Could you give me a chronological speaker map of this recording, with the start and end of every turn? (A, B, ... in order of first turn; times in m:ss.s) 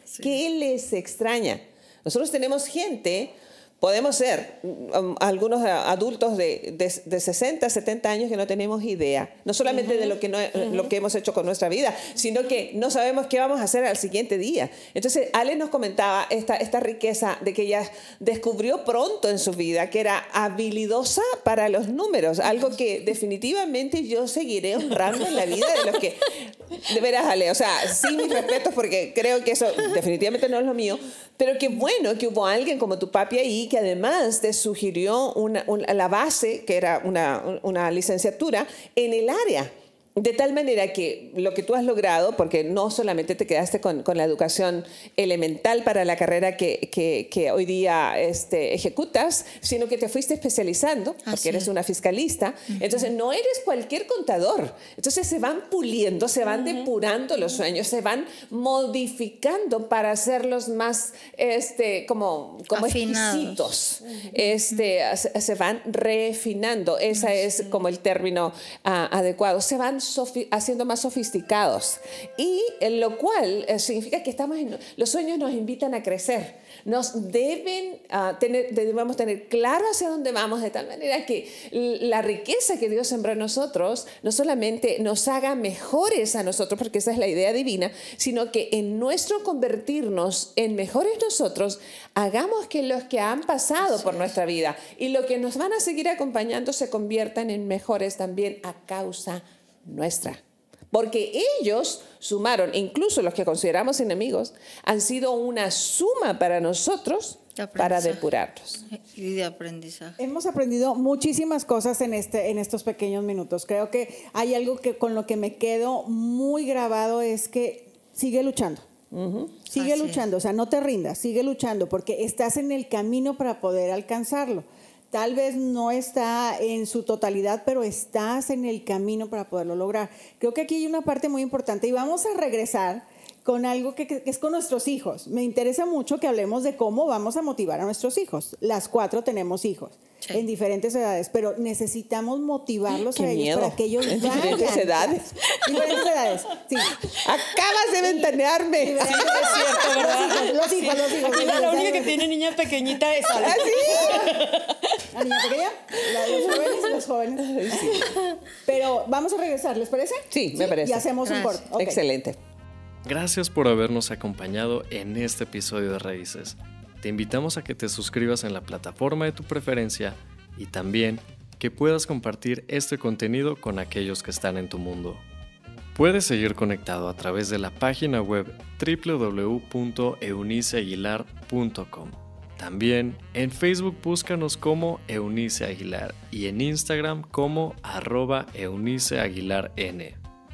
0:00.2-1:40.4 A
0:09.7-0:10.9 B
0:51.2-0:51.7 C
1:02.7-1:03.7 C
1:33.8-1:34.2 C
1:40.9-1:48.8 A
1:47.6-1:48.2 C
1:48.8-1:50.2 C
1:50.2-1:58.8 D
1:59.1-1:59.5 A
1:59.6-2:27.0 D
1:59.7-2:00.2 C
2:23.0-2:26.0 A
2:25.5-2:25.9 B
2:27.1-2:30.2 A
2:28.8-2:32.3 D
2:29.0-2:34.7 B
2:33.3-2:34.7 A
2:33.8-2:34.4 D
2:35.1-2:38.1 D
2:36.2-2:36.7 A
2:37.4-2:38.1 A
2:38.6-2:42.0 D
2:40.3-2:41.0 A
2:41.2-2:41.7 C
2:41.8-2:42.4 A
2:43.0-2:55.2 E
2:55.9-3:10.2 E